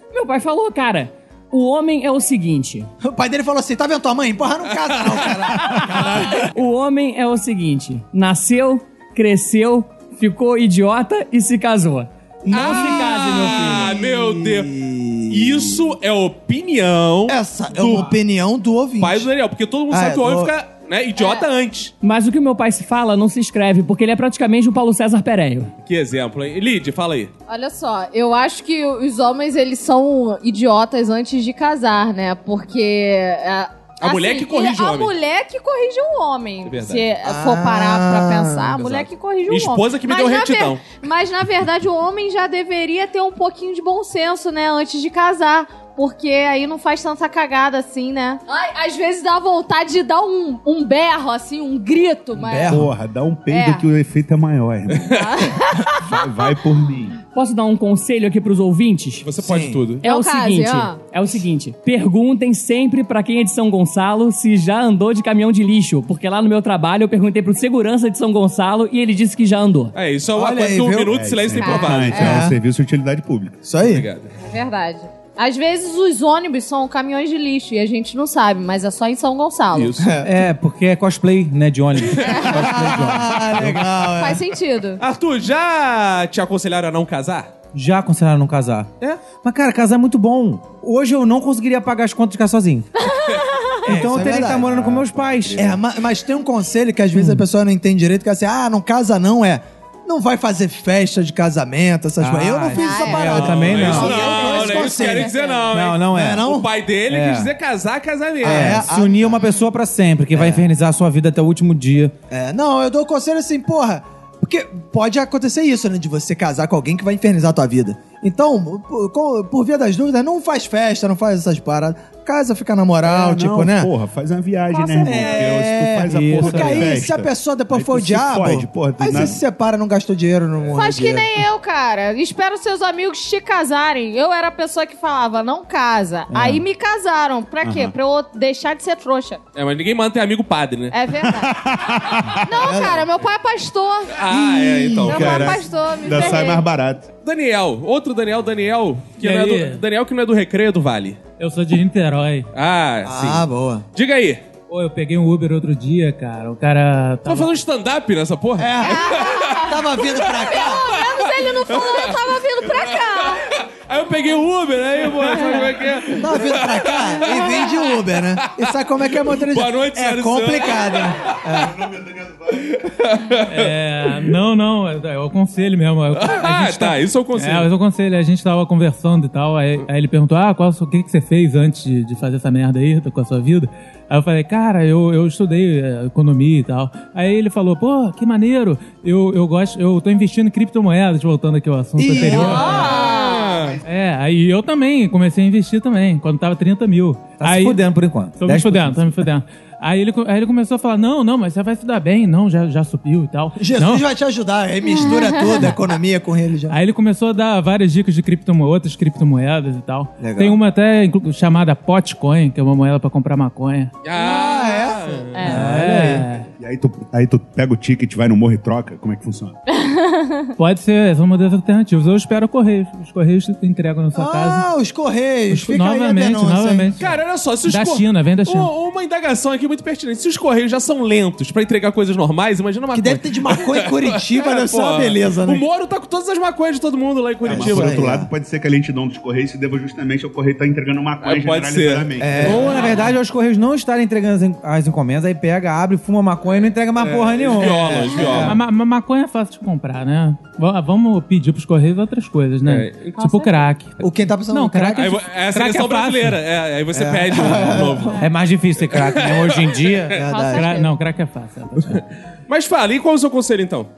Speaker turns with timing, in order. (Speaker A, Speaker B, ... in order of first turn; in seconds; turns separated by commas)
Speaker A: 0.1-2.9, Speaker B: 3.0-6.5, Speaker C: 4.9-6.0, Speaker A: 6.4-14.0, Speaker B: 12.4-15.9, Speaker C: 12.5-14.7, Speaker C: 15.3-18.1, Speaker B: 17.3-19.3, Speaker C: 19.0-21.9, Speaker B: 19.9-20.5, Speaker D: 21.2-21.4, Speaker A: 22.0-25.7, Speaker C: 25.8-27.3, Speaker D: 27.5-52.8, Speaker C: 34.0-35.1, Speaker C: 36.6-37.0, Speaker B: 37.2-39.0, Speaker C: 38.8-40.9, Speaker B: 52.3-52.9, Speaker E: 52.7-55.2, Speaker D: 53.5-53.8, Speaker C: 54.9-55.4, Speaker D: 55.1-56.2, Speaker E: 55.9-57.2, Speaker A: 57.3-59.3, Speaker C: 59.2-60.0, Speaker B: 59.4-59.8, Speaker A: 60.0-69.9, Speaker D: 60.0-61.0, Speaker C: 69.9-72.4, Speaker B: 70.3-71.1, Speaker E: 71.1-73.6, Speaker D: 71.6-72.4, Speaker B: 72.1-72.5, Speaker B: 73.6-74.0, Speaker C: 73.8-74.3, Speaker D: 74.4-79.9, Speaker C: 79.7-80.2, Speaker B: 80.0-80.3, Speaker F: 80.2-83.8, Speaker D: 82.1-82.8, Speaker B: 82.6-84.4, Speaker D: 84.2-85.0, Speaker C: 85.0-87.5, Speaker F: 87.7-92.9, Speaker D: 93.0-93.8, Speaker F: 93.8-95.7, Speaker B: 93.8-94.7, Speaker E: 94.0-95.8, Speaker B: 95.6-105.3, Speaker F: 97.1-97.4, Speaker F: 102.2-104.1, Speaker D: 102.7-105.7, Speaker C: 103.3-108.9, Speaker F: 105.7-106.4, Speaker B: 106.0-106.7, Speaker F: 107.1-107.5, Speaker B: 108.4-109.6, Speaker F: 108.4-112.1, Speaker B: 110.3-110.6, Speaker B: 112.3-123.9, Speaker E: 123.0-129.4, Speaker B: 125.0-131.3, Speaker D: 125.0-125.5, Speaker F: 126.1-127.0, Speaker D: 130.7-139.4, Speaker F: 136.3-136.6, Speaker E: 137.6-137.9, Speaker C: 139.6-141.0, Speaker D: 140.9-144.2, Speaker E: 141.2-142.5, Speaker B: 142.6-143.1, Speaker C: 144.1-145.6, Speaker B: 144.3-145.1, Speaker E: 145.0-147.1, Speaker D: 145.1-146.6, Speaker C: 147.2-151.2, Speaker G: 149.2-149.8, Speaker G: 151.4-152.5, Speaker C: 152.5-153.4, Speaker B: 153.0-153.8, Speaker C: 153.9-154.4, Speaker G: 154.7-157.5, Speaker C: 157.2-171.3, Speaker B: 158.6-160.9, Speaker D: 158.8-163.4, Speaker D: 165.1-165.8, Speaker B: 166.2-171.8, Speaker E: 171.6-172.7, Speaker C: 172.5-173.7, Speaker G: 173.5-192.9, Speaker C: 176.1-177.7, Speaker B: 192.0-192.9, Speaker C: 192.2-193.8, Speaker D: 192.2-193.6, Speaker G: 193.8-197.8, Speaker F: 197.4-199.1, Speaker G: 198.4-204.1, Speaker B: 203.6-206.8, Speaker D: 204.8-205.7, Speaker G: 206.7-213.9, Speaker B: 210.2-210.6, Speaker C: 214.0-215.6, Speaker B: 214.1-216.1, Speaker D: 215.3-215.6, Speaker G: 215.4-216.5, Speaker F: 215.5-216.2, Speaker E: 216.6-219.6, Speaker D: 219.7-220.5, Speaker G: 220.6-224.7, Speaker B: 224.1-226.9, Speaker G: 225.5-228.7, Speaker C: 227.0-238.0, Speaker B: 232.9-235.6, Speaker B: 237.4-238.3, Speaker E: 237.5-242.8, Speaker C: 241.2-242.1, Speaker F: 242.2-248.6, Speaker B: 242.3-242.6, Speaker C: 246.9-248.6, Speaker B: 247.6-248.5, Speaker G: 248.4-256.4, Speaker C: 252.7-253.6, Speaker B: 254.0-255.1, Speaker C: 254.9-258.2, Speaker B: 256.9-258.2, Speaker F: 258.2-260.2, Speaker C: 258.9-260.2, Speaker B: 260.1-260.8, Speaker D: 260.2-260.9, Speaker G: 260.5-262.0, Speaker C: 261.8-263.9